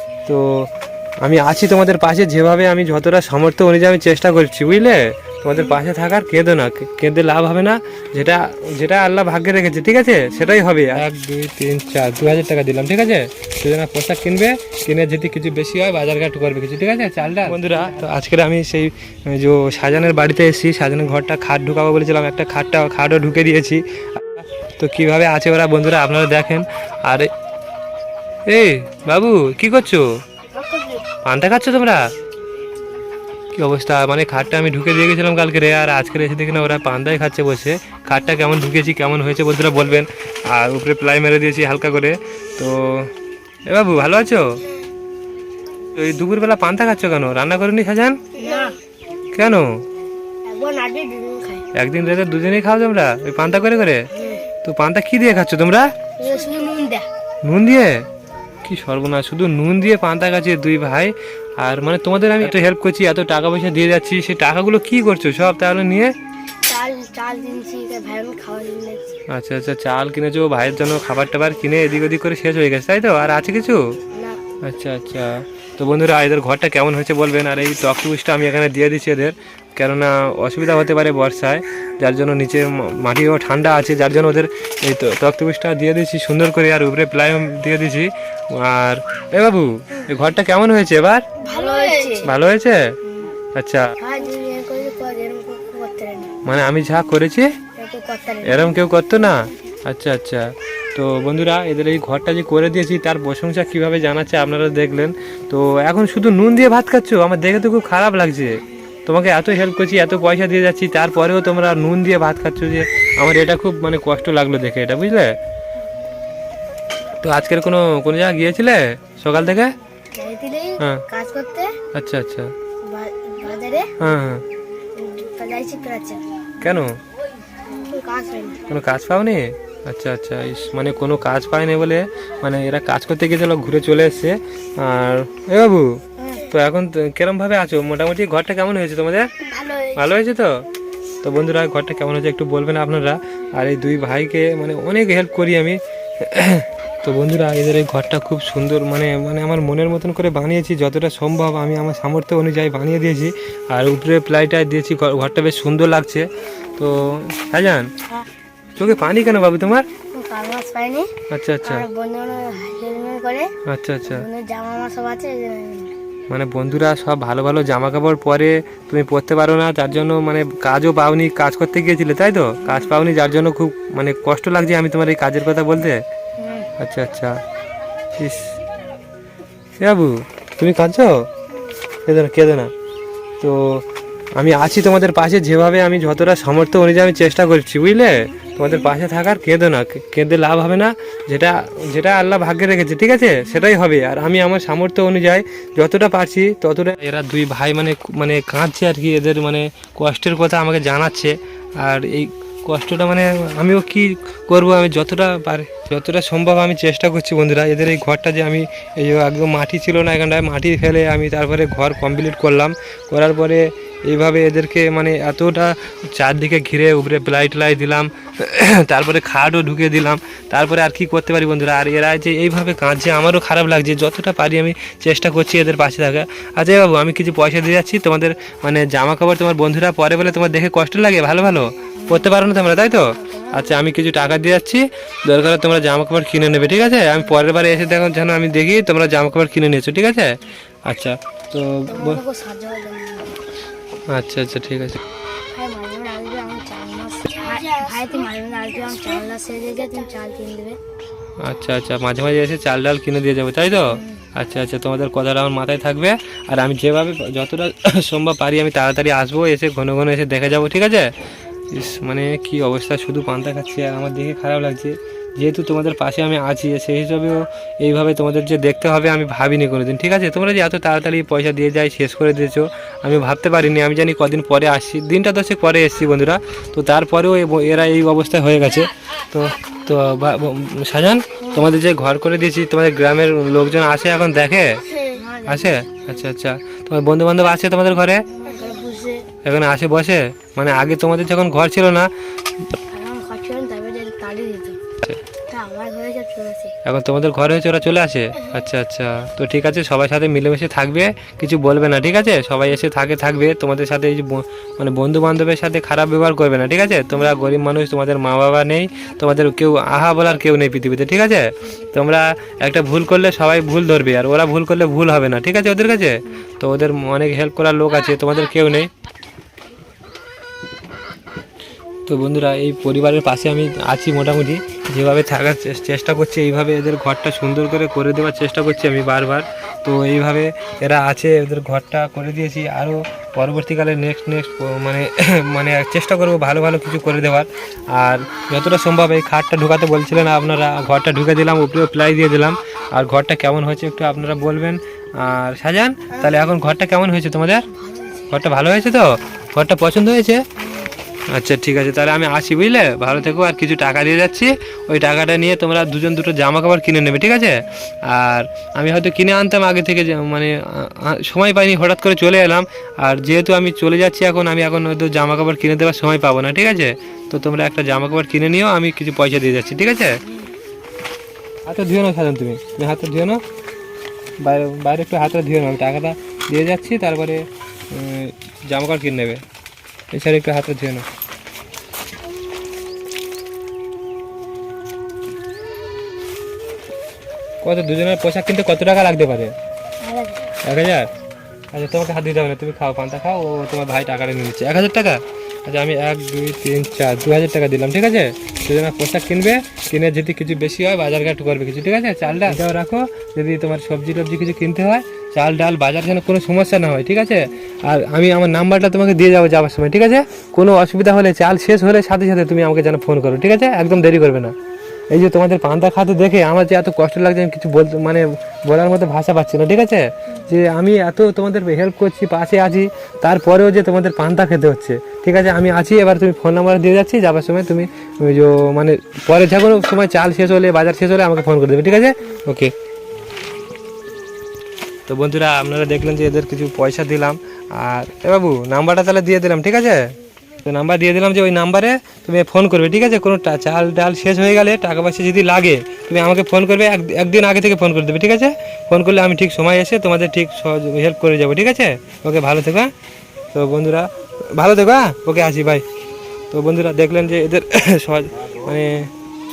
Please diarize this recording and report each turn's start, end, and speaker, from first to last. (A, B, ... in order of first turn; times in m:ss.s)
0:00.3-0:00.7 A
0:01.2-0:27.3 A
0:28.5-0:30.1 A
0:30.6-0:31.0 B
0:31.2-0:32.0 A
0:33.5-0:43.1 A
0:43.7-0:44.6 A
0:45.9-0:48.2 A
0:48.4-0:48.8 B
0:49.3-0:49.8 A
0:50.4-0:51.7 B
0:51.7-0:54.1 A
0:54.1-0:54.5 B
0:54.6-0:55.9 A
0:56.2-0:57.1 B
0:57.4-0:58.0 A
0:58.6-1:06.1 A
1:06.6-1:09.1 B
1:09.3-1:13.9 A
1:14.1-1:14.4 B
1:14.6-1:31.2 A
1:31.4-1:32.3 B
1:32.2-1:32.9 A
1:33.6-1:33.9 A
1:34.0-1:36.3 B
1:36.4-1:37.5 A
1:37.8-1:38.8 B
1:38.4-1:55.4 A
1:57.2-1:59.7 A
2:00.2-2:01.8 B
2:01.9-2:02.5 A
2:02.8-2:03.9 B
2:04.0-2:04.4 A
2:04.9-2:06.2 B
2:06.6-2:07.0 A
2:07.7-2:08.6 B
2:08.7-2:19.3 A
2:16.2-2:16.5 B
2:19.4-2:20.0 B
2:19.9-2:20.7 A
2:21.2-2:37.9 A
2:38.8-2:39.8 A
2:40.1-2:41.1 B
2:41.3-2:41.9 A
2:41.6-2:43.5 B
2:43.7-2:44.3 A
2:44.0-2:45.9 B
2:46.3-2:56.0 A
2:56.4-2:56.7 B
2:56.8-2:57.4 A
2:58.2-2:58.6 A
2:59.8-3:01.3 A
3:02.1-3:02.7 A
3:03.4-3:03.8 A
3:04.4-4:02.2 A
3:52.0-3:52.3 B
3:53.0-3:53.8 B
4:01.9-4:03.4 B
4:04.1-4:05.0 A
4:05.5-4:10.8 B
4:11.4-4:21.1 A
4:13.9-4:14.2 B
4:21.7-4:44.8 A
4:45.0-4:45.8 B
4:45.5-4:48.3 A
4:48.3-4:49.3 B
4:49.4-4:52.1 A
4:52.9-4:54.8 B
4:55.5-4:56.7 B
4:56.8-5:18.9 A
5:22.1-5:47.7 A
5:47.7-5:48.3 B
5:48.3-5:50.4 A
5:50.6-5:50.9 B
5:51.3-6:10.2 A
6:11.7-6:13.4 A
6:14.4-6:19.4 A
6:20.1-6:21.0 A
6:27.6-6:29.6 A
6:30.0-6:30.5 B
6:30.6-6:31.1 A
6:31.7-6:54.5 A
6:55.1-7:12.7 A
7:15.1-7:32.9 A
7:33.5-7:35.8 A
7:36.5-7:39.1 A